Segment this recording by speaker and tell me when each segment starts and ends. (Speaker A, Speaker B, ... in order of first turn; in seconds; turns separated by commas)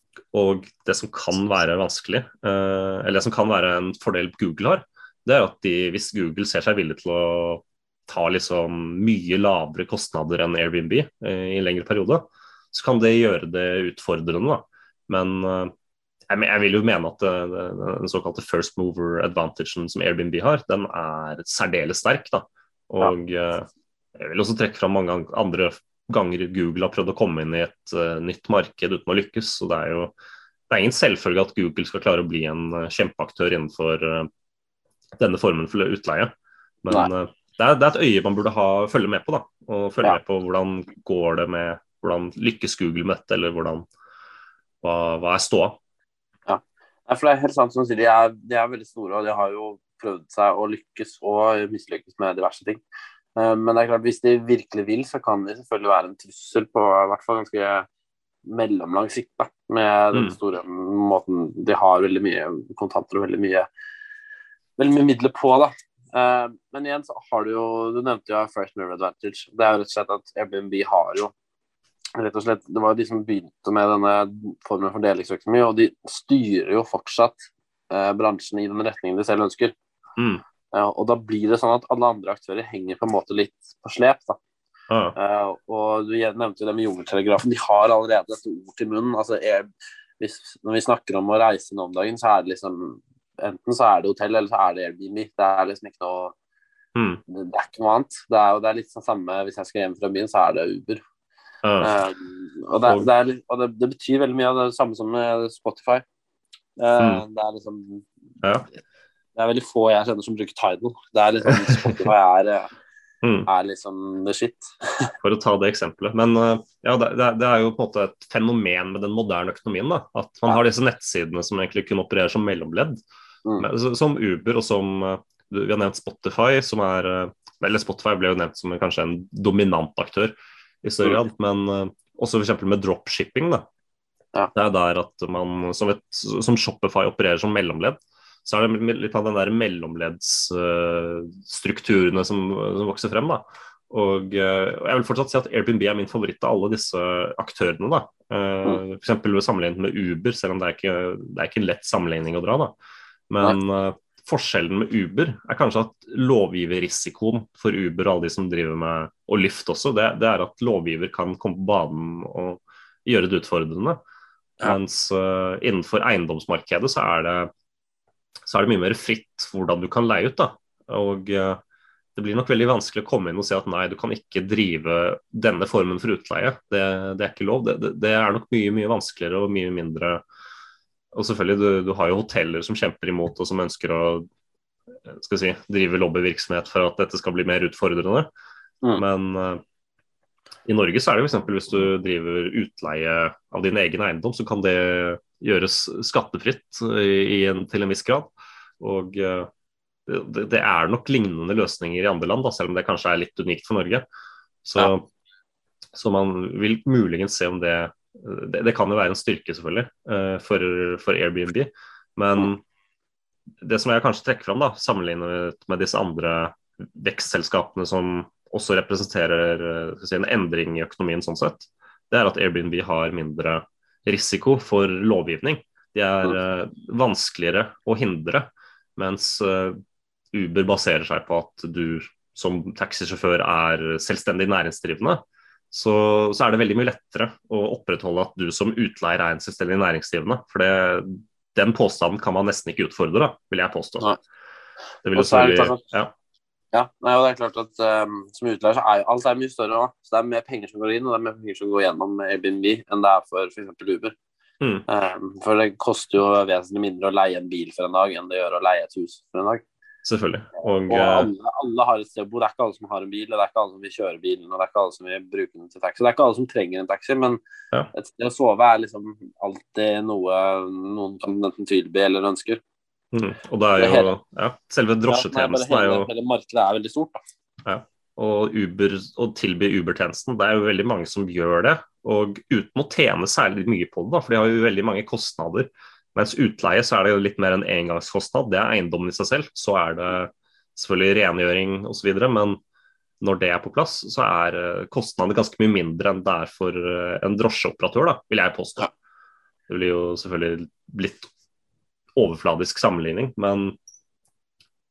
Speaker A: 0.3-15.7, Speaker A: 16.3-30.1, Speaker A: 30.7-34.3, Speaker A: 35.2-36.3, Speaker A: 36.8-43.9, Speaker A: 44.8-45.8, Speaker B: 46.5-52.8, Speaker B: 53.4-57.9, Speaker B: 58.5-63.7, Speaker B: 64.8-71.3, Speaker B: 72.2-79.7, Speaker A: 80.2-80.4, Speaker B: 80.7-84.4, Speaker A: 84.9-85.1, Speaker B: 85.2-89.7, Speaker B: 90.2-96.3, Speaker A: 97.0-97.2, Speaker B: 97.3-101.0, Speaker A: 101.6-101.9, Speaker B: 101.8-106.0, Speaker B: 106.8-108.0, Speaker B: 109.3-112.7, Speaker A: 111.7-112.0, Speaker A: 113.2-113.5, Speaker B: 113.5-115.1, Speaker A: 115.2-123.0, Speaker A: 123.6-133.6, Speaker A: 134.5-152.7, Speaker A: 153.3-164.0, Speaker A: 164.6-167.5, Speaker A: 168.4-171.6, Speaker A: 172.2-180.2, Speaker A: 181.1-184.3, Speaker A: 185.1-188.3, Speaker A: 188.9-189.6, Speaker A: 190.7-198.3, Speaker A: 198.8-199.5, Speaker A: 200.1-204.0, Speaker A: 204.6-205.1, Speaker A: 205.9-212.6, Speaker A: 213.6-229.8, Speaker A: 230.3-244.1, Speaker A: 245.0-246.1, Speaker B: 245.2-245.8, Speaker B: 246.7-254.1, Speaker B: 254.9-259.6, Speaker A: 260.0-261.3, Speaker B: 260.9-267.4, Speaker B: 267.9-272.6, Speaker A: 273.1-276.1, Speaker B: 273.8-274.1, Speaker B: 275.1-277.2, Speaker A: 277.6-292.6, Speaker A: 293.2-298.9, Speaker A: 299.7-301.3, Speaker A: 302.1-303.8